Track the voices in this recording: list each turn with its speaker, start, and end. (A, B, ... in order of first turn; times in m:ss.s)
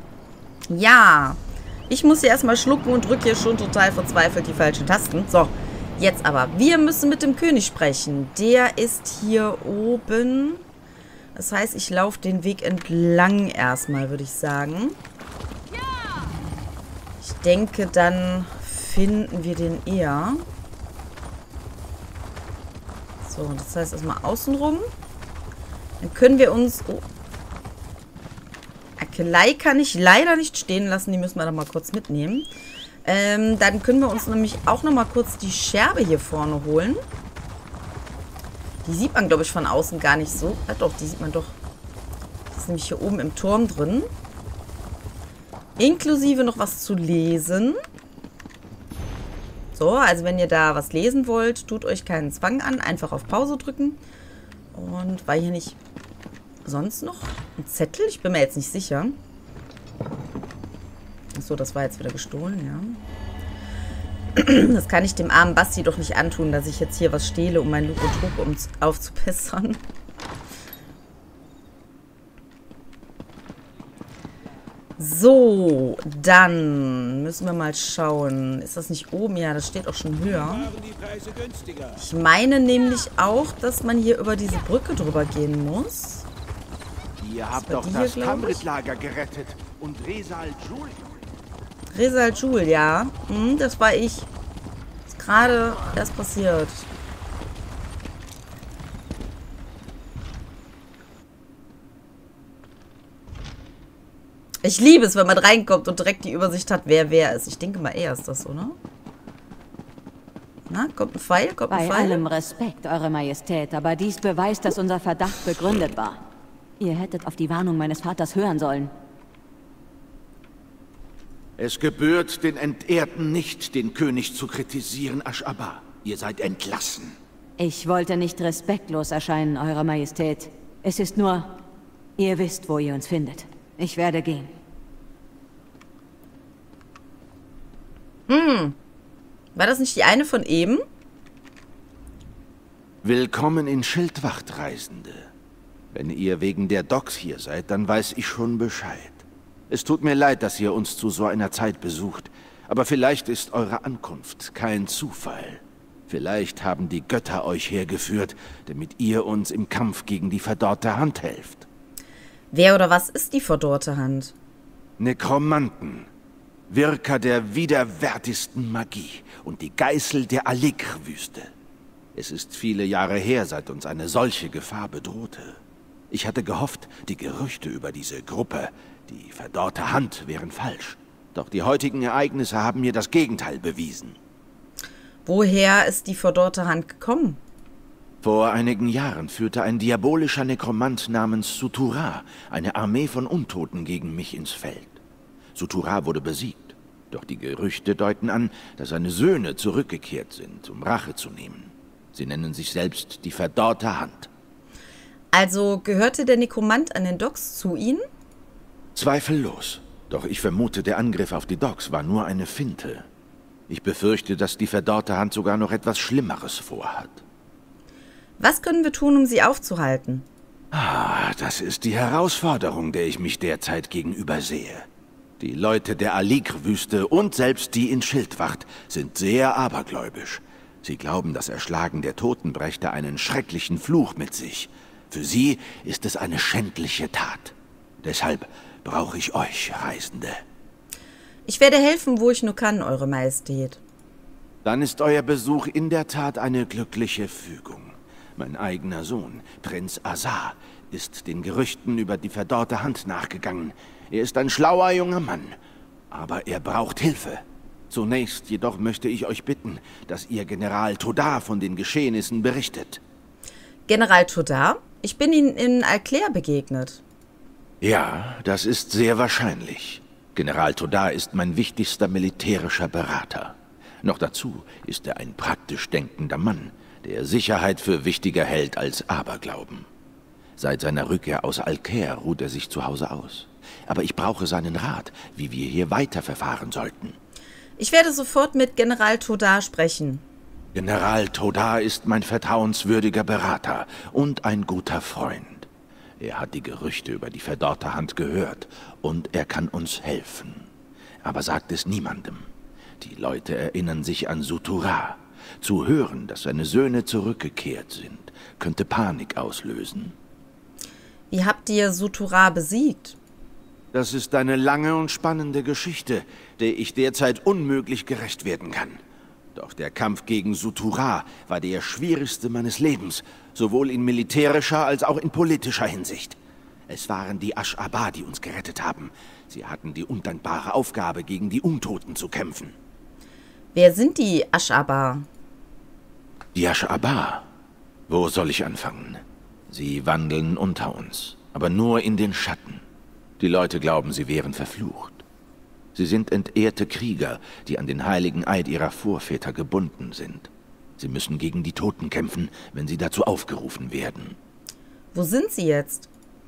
0:00.7-0:10.6 A
0:11.3-0:15.0 A
0:17.2-0:20.4 A
0:23.2-0:24.9 A
0:26.0-0:27.0 A
0:29.0-0:32.5 A
0:33.0-0:37.0 A
0:38.8-0:41.6 A
0:42.5-0:44.1 A
0:45.8-0:47.8 A
0:49.7-0:54.0 A
0:54.7-0:55.8 A
0:56.6-0:59.2 A
1:01.3-1:03.0 A
1:04.4-1:09.8 A
1:15.0-1:20.7 A
1:22.0-1:26.3 A
1:27.2-1:31.1 B
1:27.6-1:28.6 A
1:31.9-1:34.3 A
1:35.1-1:36.9 A
1:44.6-1:48.8 A
1:50.7-1:52.2 A
1:51.7-1:56.2 C
1:56.8-1:58.9 C
2:01.6-2:07.2 B
2:07.6-2:11.6 C
2:12.2-2:14.5 C
2:18.3-2:18.8 A
2:19.6-2:20.8 A
2:23.0-2:25.3 B
2:25.9-2:41.7 B
2:42.5-2:44.3 A
2:45.0-2:46.1 B
2:46.7-2:51.5 B
2:52.2-3:04.2 B
3:05.2-3:07.4 A
3:08.2-3:15.0 B
3:15.6-3:24.3 B
3:25.3-3:28.1 A
3:28.9-3:33.1 B
3:33.7-3:37.2 B
3:38.4-3:40.3 A
3:40.7-3:44.9 B
3:45.4-4:00.4 B
4:01.4-4:03.8 A
4:04.6-4:15.6 B
4:16.1-4:23.0 B
4:23.9-4:27.0 A
4:27.8-4:39.9 B
4:40.6-4:47.2 B
4:47.8-4:50.2 A
4:50.7-4:55.7 B
4:56.2-5:00.7 B
5:01.2-5:02.5 B
5:03.0-5:10.1 B
5:11.3-5:13.2 A
5:13.9-5:19.0 B
5:19.6-5:32.7 B
5:33.7-5:35.3 A
5:36.6-5:37.5 B
5:38.1-5:42.8 B
5:43.4-5:45.2 B
5:45.9-5:54.4 B
5:55.1-5:56.1 A